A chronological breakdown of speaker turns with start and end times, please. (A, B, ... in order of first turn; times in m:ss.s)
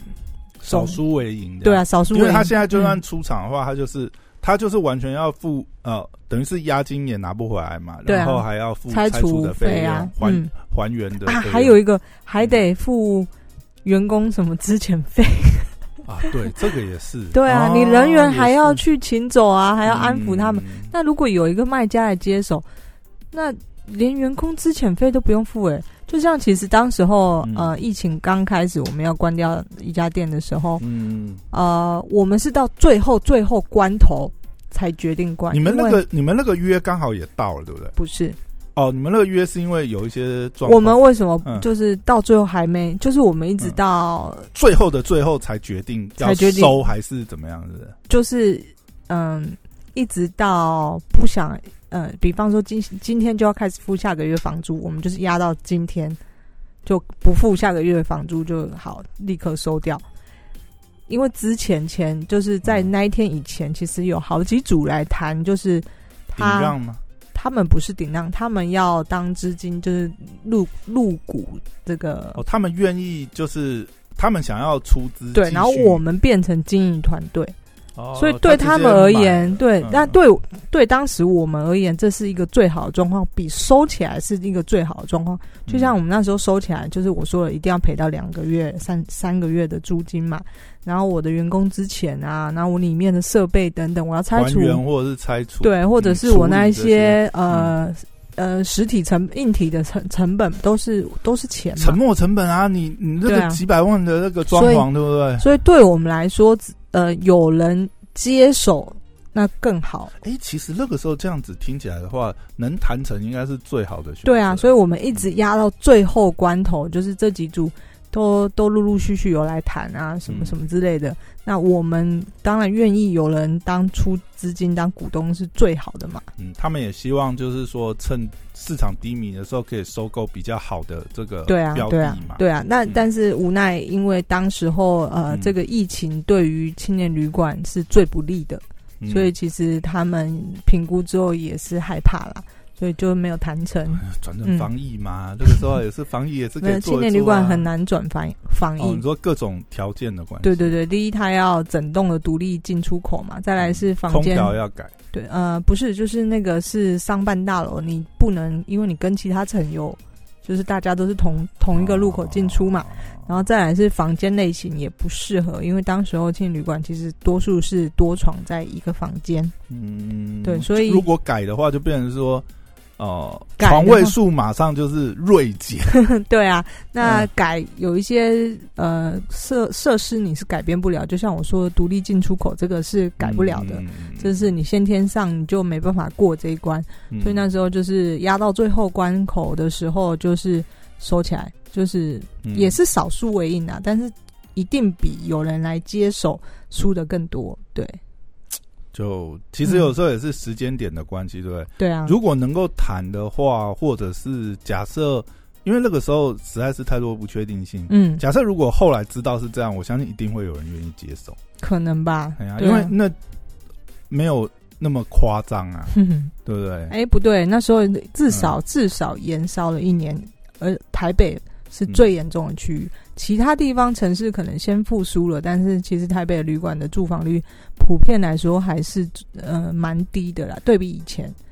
0:00.6-0:11.8 A
0:00.7-0:01.0 B
0:01.6-0:03.0 B
0:08.1-0:10.5 B
0:11.2-0:13.3 B
0:13.8-0:15.7 B
0:16.0-0:18.8 A
0:17.3-0:22.6 B
0:19.8-0:20.9 A
0:23.3-0:30.8 B
0:27.4-0:27.7 A
0:30.8-0:31.4 A
0:31.5-0:36.0 B
0:35.5-0:38.0 A
0:38.0-0:38.4 B
0:38.8-0:41.6 A
0:40.6-0:44.5 B
0:44.5-0:48.0 A
0:46.2-0:46.8 B
0:48.1-0:56.2 B
0:56.8-1:00.0 B
1:01.1-1:06.8 B
1:02.6-1:02.9 A
1:06.4-1:07.0 A
1:07.3-1:12.4 B
1:12.4-1:16.0 A
1:15.3-1:17.6 B
1:18.0-1:20.2 A
1:18.2-1:34.8 B
1:25.7-1:26.0 A
1:34.3-1:37.7 A
1:35.6-1:42.0 B
1:41.8-1:45.5 A
1:43.3-1:43.6 B
1:44.5-1:44.9 B
1:45.4-1:50.1 B
1:50.2-1:55.2 A
1:54.2-2:06.3 B
2:00.3-2:00.6 A
2:06.4-2:13.0 A
2:11.5-2:24.7 B
2:15.3-2:15.6 A
2:19.0-2:19.3 A
2:23.9-2:27.7 A
2:26.6-2:29.0 B
2:28.8-2:30.8 A
2:30.4-2:34.5 B
2:33.6-2:34.9 A
2:35.1-2:49.5 B
2:41.7-2:43.3 A
2:49.7-2:52.5 A
2:50.4-2:51.0 B
2:53.0-2:56.0 A
2:53.6-2:54.2 B
2:56.0-3:18.0 B
2:57.0-2:57.3 A
3:03.2-3:04.5 A
3:07.1-3:07.4 A
3:12.4-3:12.8 A
3:18.9-3:31.4 A
3:21.8-3:22.1 B
3:27.9-3:28.2 B
3:31.6-3:32.9 B
3:32.4-3:33.2 A
3:34.1-3:37.0 A
3:35.9-3:36.3 B
3:36.9-3:51.4 B
3:38.3-3:38.6 A